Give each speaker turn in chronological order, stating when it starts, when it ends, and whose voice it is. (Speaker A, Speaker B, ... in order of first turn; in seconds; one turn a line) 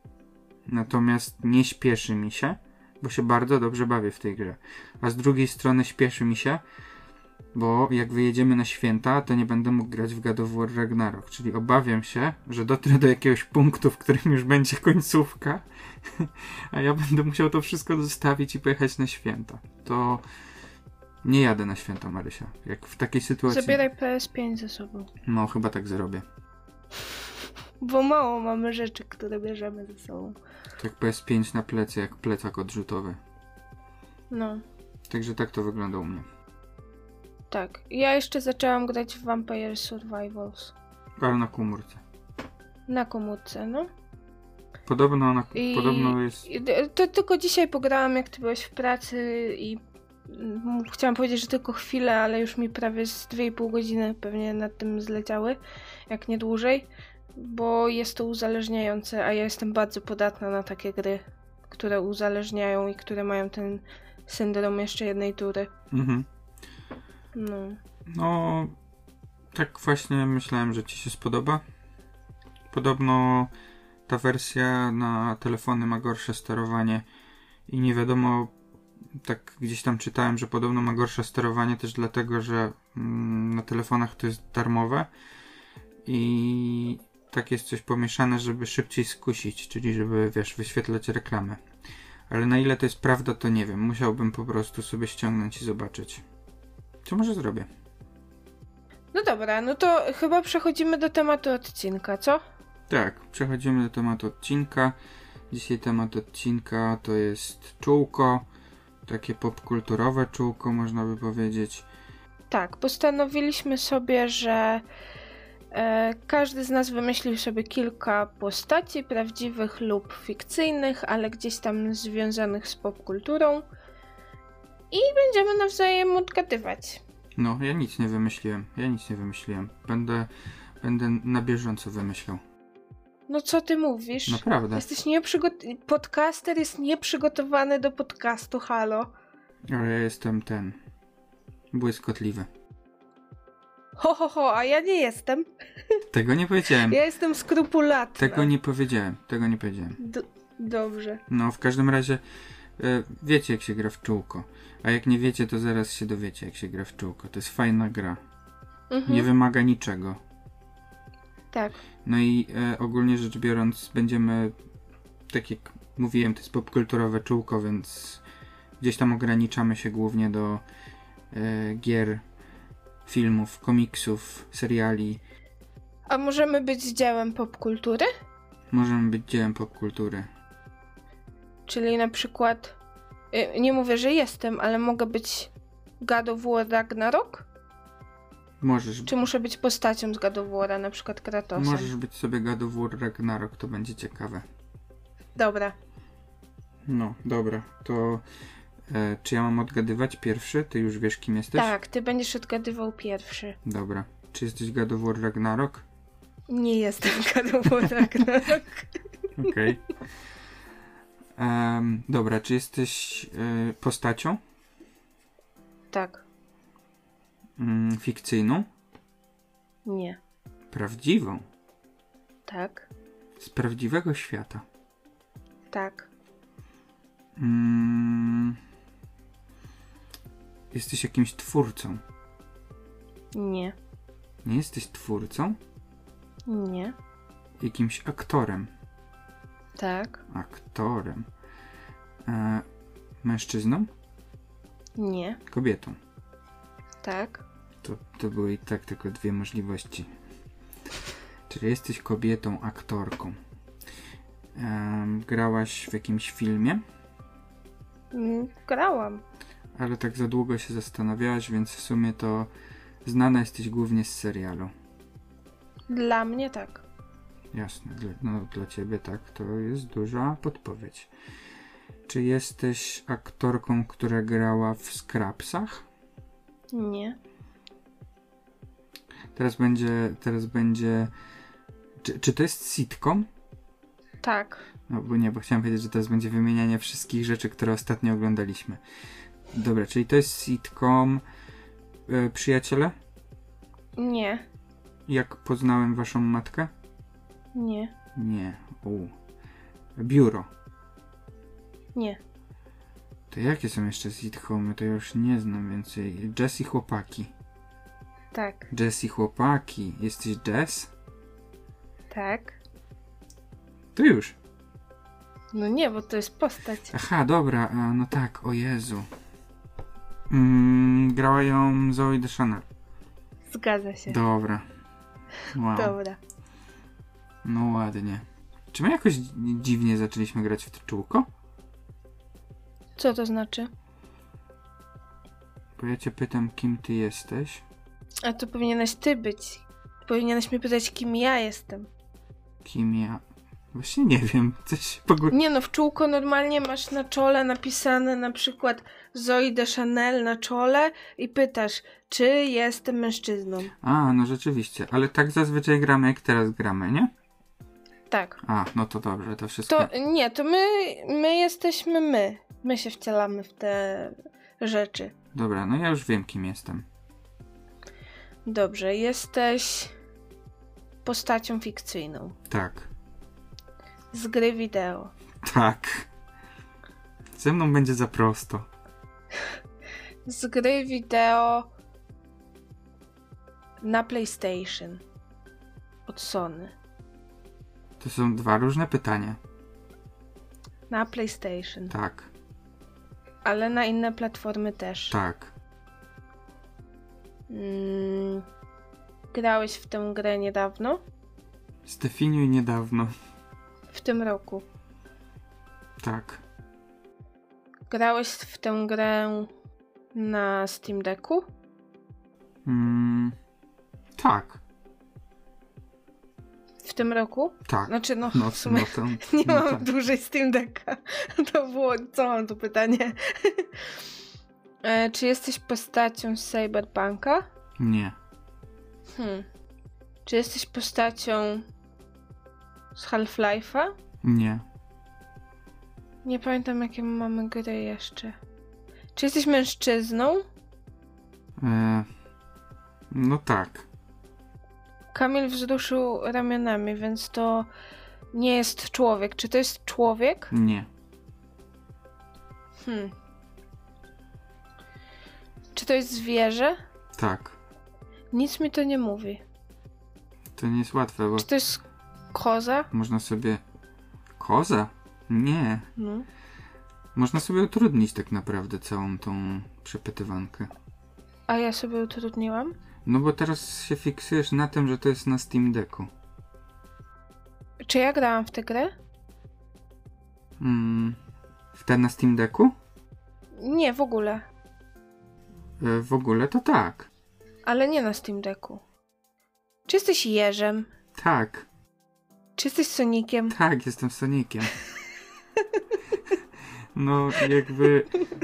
Speaker A: 0.7-6.6
Speaker A: 7.5-20.2
Speaker A: 21.2-23.8
Speaker B: 23.5-25.1
Speaker A: 25.2-26.2
Speaker B: 27.8-30.4
Speaker A: 30.8-33.2
Speaker B: 34.3-34.6
Speaker A: 35.1-36.3
Speaker B: 37.5-40.7
Speaker A: 41.2-42.0
Speaker B: 42.9-43.9
Speaker A: 44.9-46.5
Speaker B: 45.5-65.7
Speaker A: 65.9-66.2
Speaker B: 67.3-67.8
Speaker A: 68.1-68.7
Speaker A: 69.5-71.6
Speaker A: 72.7-73.5
Speaker A: 74.1-77.0
Speaker A: 77.7-78.5
Speaker A: 79.2-85.1
Speaker A: 86.0-91.6
Speaker A: 92.3-96.2
Speaker A: 97.0-97.7
Speaker B: 99.1-102.4
Speaker A: 102.9-105.0
Speaker A: 105.5-108.5
Speaker A: 109.0-111.8
Speaker B: 112.5-114.8
Speaker B: 115.7-123.6
Speaker B: 124.9-127.0
Speaker A: 127.4-130.3
Speaker A: 130.8-132.4
Speaker B: 133.3-139.1
Speaker A: 134.3-134.8
Speaker A: 139.7-140.8
Speaker A: 141.7-142.5
Speaker B: 144.0-145.4
Speaker A: 146.1-147.0
Speaker B: 146.8-148.5
Speaker A: 148.2-150.0
Speaker B: 150.0-151.2
Speaker A: 151.3-152.2
Speaker A: 152.8-158.2
Speaker B: 158.9-159.3
Speaker A: 159.0-160.2
Speaker B: 161.5-161.8
Speaker A: 162.0-164.5
Speaker A: 165.3-168.2
Speaker A: 168.8-170.6
Speaker A: 171.3-172.2
Speaker A: 173.1-175.2
Speaker B: 176.1-178.1
Speaker A: 178.7-180.3
Speaker B: 181.7-182.8
Speaker B: 183.3-187.4
Speaker A: 188.6-189.1
Speaker B: 189.1-191.9
Speaker A: 191.6-194.4
Speaker B: 195.3-195.7
Speaker A: 196.9-198.2
Speaker A: 198.9-201.7
Speaker B: 201.5-203.6
Speaker A: 203.6-205.8
Speaker B: 206.5-208.9
Speaker A: 209.4-209.8
Speaker A: 211.4-214.4
Speaker B: 215.9-216.2
Speaker A: 217.6-218.7
Speaker B: 219.8-220.2
Speaker A: 220.7-221.4
Speaker B: 222.5-222.9
Speaker A: 223.4-224.6
Speaker B: 225.7-226.1
Speaker A: 227.4-228.6
Speaker A: 230.7-232.0
Speaker B: 233.3-233.8
Speaker A: 234.4-235.6
Speaker B: 236.5-236.9
Speaker A: 237.6-238.7
Speaker B: 239.8-240.2
Speaker A: 240.3-241.2
Speaker A: 242.2-242.7
Speaker A: 243.2-243.9
Speaker B: 245.0-245.4
Speaker A: 245.5-246.0
Speaker B: 247.0-247.4
Speaker A: 247.8-250.1
Speaker A: 251.5-253.3
Speaker A: 254.6-256.8
Speaker B: 258.1-259.2
Speaker A: 259.8-262.5
Speaker A: 263.0-264.7
Speaker B: 265.9-266.8
Speaker A: 267.5-271.1
Speaker A: 272.1-275.8
Speaker B: 276.7-277.2
Speaker A: 279.3-281.1
Speaker A: 282.0-283.3
Speaker B: 284.2-284.6
Speaker A: 284.9-288.8
Speaker A: 289.5-291.2
Speaker A: 292.1-292.9
Speaker B: 294.0-294.4
Speaker A: 295.1-296.7
Speaker B: 297.5-297.9
Speaker A: 298.1-299.1
Speaker A: 300.0-300.5
Speaker B: 301.9-302.2
Speaker A: 303.3-307.3
Speaker B: 308.3-308.7
Speaker A: 308.7-310.9
Speaker B: 312.1-312.6
Speaker A: 313.9-314.4
Speaker B: 315.5-316.9
Speaker A: 316.9-319.1
Speaker A: 320.3-322.6
Speaker B: 323.5-324.2
Speaker A: 324.1-324.6
Speaker A: 325.5-326.0
Speaker B: 325.7-326.2
Speaker A: 327.4-331.3
Speaker B: 333.0-333.7
Speaker A: 335.8-337.6
Speaker B: 338.2-341.9
Speaker A: 342.6-343.2
Speaker A: 343.7-345.3
Speaker B: 345.3-353.7
Speaker A: 353.8-357.1
Speaker B: 358.1-358.4
Speaker A: 358.4-359.9
Speaker B: 359.7-365.1
Speaker A: 365.3-366.8
Speaker B: 368.4-369.9
Speaker B: 371.0-372.4
Speaker A: 372.5-372.9
Speaker B: 374.1-375.1
Speaker A: 375.4-376.1
Speaker A: 377.3-378.7
Speaker B: 380.2-381.7
Speaker B: 383.8-385.0
Speaker B: 386.1-386.7
Speaker A: 388.0-389.4
Speaker B: 390.9-391.9
Speaker A: 391.9-392.3
Speaker B: 393.4-395.1
Speaker A: 395.1-395.5
Speaker B: 397.5-398.4
Speaker B: 399.3-401.0
Speaker A: 401.9-403.1
Speaker B: 403.9-404.6
Speaker A: 406.0-406.4
Speaker B: 407.9-409.5
Speaker B: 410.1-411.4
Speaker A: 412.6-413.3
Speaker A: 414.2-414.6
Speaker B: 416.8-423.9
Speaker A: 417.7-419.9
Speaker B: 424.8-427.4
Speaker A: 427.8-428.1
Speaker B: 429.1-429.4
Speaker B: 430.2-431.6
Speaker B: 432.9-433.9
Speaker A: 434.2-434.6
Speaker B: 436.2-438.4
Speaker B: 439.1-440.4
Speaker A: 441.6-442.1
Speaker A: 443.1-443.9
Speaker B: 445.1-447.7
Speaker B: 448.3-450.5
Speaker A: 450.5-450.9
Speaker B: 452.8-453.1
Speaker B: 455.7-456.8
Speaker A: 457.1-457.6
Speaker B: 458.3-459.4
Speaker A: 460.6-461.5
Speaker B: 461.4-461.8
Speaker B: 462.3-462.9
Speaker A: 462.9-463.6
Speaker A: 464.4-465.9
Speaker B: 466.0-466.2
Speaker A: 467.1-470.7
Speaker B: 471.5-472.7
Speaker A: 473.0-476.1
Speaker B: 477.8-478.9
Speaker A: 480.6-481.2
Speaker A: 481.7-482.7
Speaker B: 483.5-484.4
Speaker A: 485.8-487.1
Speaker B: 487.6-488.8
Speaker B: 489.9-490.9
Speaker A: 491.1-491.6
Speaker B: 492.6-493.6
Speaker A: 493.5-494.7
Speaker A: 496.9-498.2